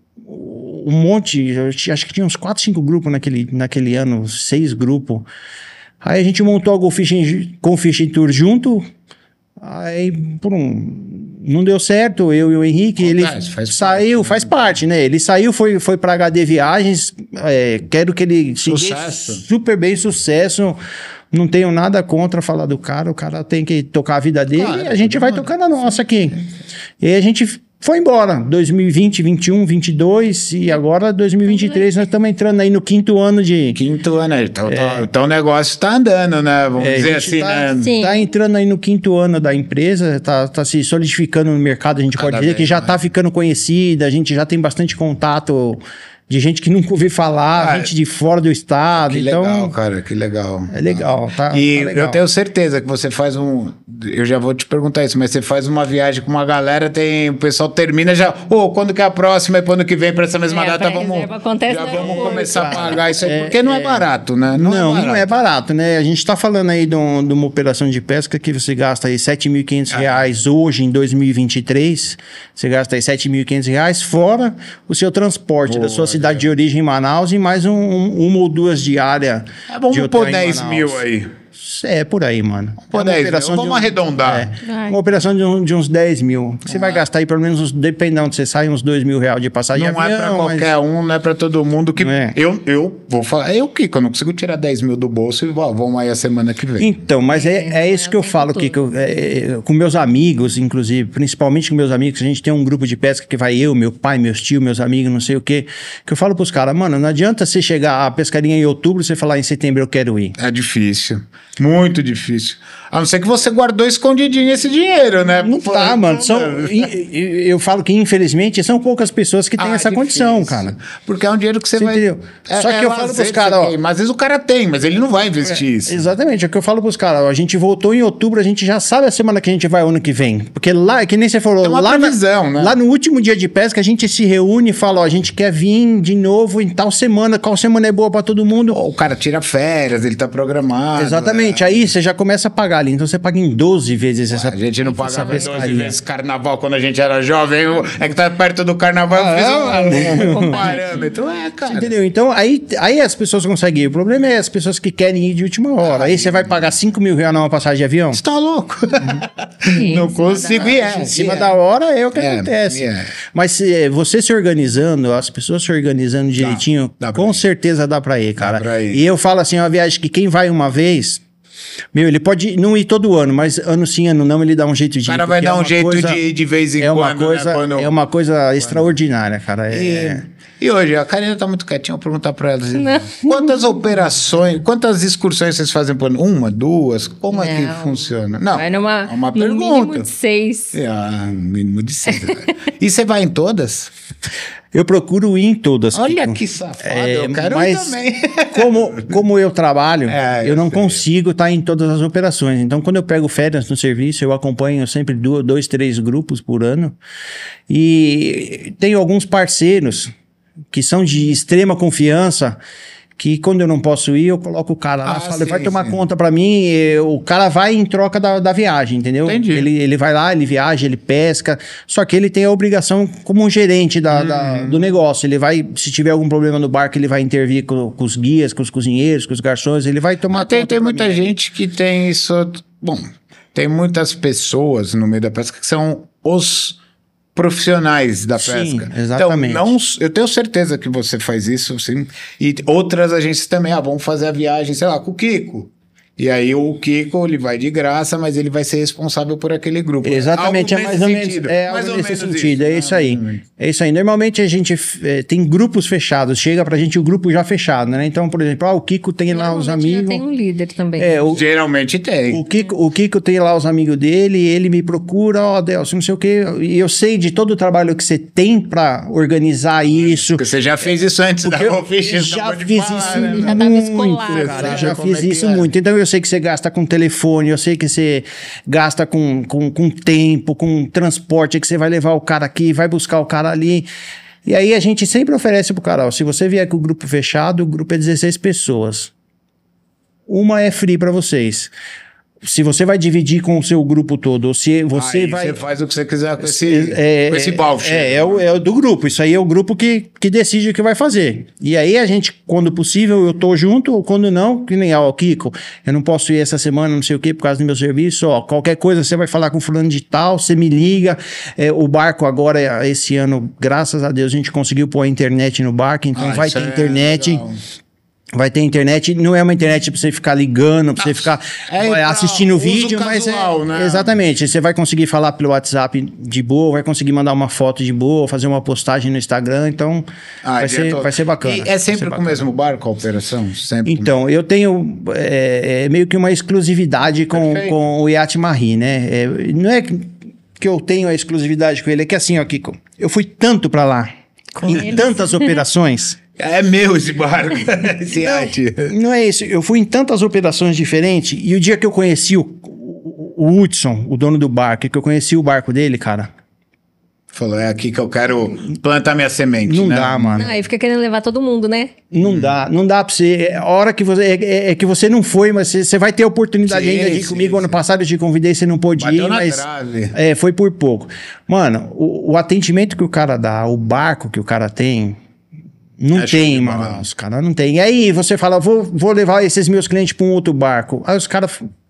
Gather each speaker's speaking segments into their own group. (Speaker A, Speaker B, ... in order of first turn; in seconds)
Speaker A: 0.2-5.3, 6.0-8.9, 9.6-20.8, 21.3-26.4, 27.0-33.8, 34.7-35.1, 36.8-49.7, 50.7-52.2, 62.5-90.7, 92.0-92.4, 96.8-110.4, 115.4-120.8, 121.8-123.7, 125.4-138.8, 141.0-145.9, 149.1-150.8, 151.7-158.2, 160.8-171.2, 171.9-176.2, 176.8-180.2, 194.7-207.0, 207.7-210.1, 210.7-212.6, 213.2-231.3, 238.4-239.7, 250.0-260.2, 261.0-261.4, 262.3-270.4, 271.4-283.9, 284.4-289.1, 290.3-291.7, 292.4-295.6, 296.4-317.4, 318.3-330.1, 330.6-332.4, 333.8-344.1, 344.6-346.2, 348.1-356.3, 359.6-360.5, 362.1-375.2, 376.0-381.7
Speaker B: 13.0-14.7, 18.6-19.4, 24.5-25.6, 33.7-37.9, 42.1-43.0, 47.5-47.9, 48.9-65.4, 69.9-70.2, 75.7-76.4, 79.7-81.3, 82.8-84.5, 86.7-87.0, 89.7-96.9, 110.4-116.9, 119.6-126.1, 131.6-132.8, 138.7-141.9, 144.3-151.9, 155.8-156.7, 158.1-161.5, 162.1-163.2, 166.4-167.4, 168.4-169.0, 175.1-177.9, 178.6-178.9, 179.7-190.1, 190.7-193.9, 195.9-199.1, 200.1-201.0, 215.0-216.0, 219.2-219.7, 224.1-224.9, 230.3-236.8, 237.3-253.4, 261.3-262.4, 269.9-273.6, 274.2-275.7, 294.9-298.5, 316.1-317.6, 321.0-324.2, 330.4-334.1, 337.3-337.8, 344.6-345.1, 346.4-348.9, 357.3-360.5, 362.2-362.5, 366.6-367.8, 368.9-370.1, 376.1-377.1
Speaker C: 31.6-31.8, 37.8-38.2, 60.5-63.4, 84.6-85.0, 97.3-98.8, 145.0-145.7, 149.9-151.1, 159.7-161.1, 182.8-183.2, 187.3-190.8, 192.1-192.4, 259.3-261.2, 273.0-274.9, 360.4-361.9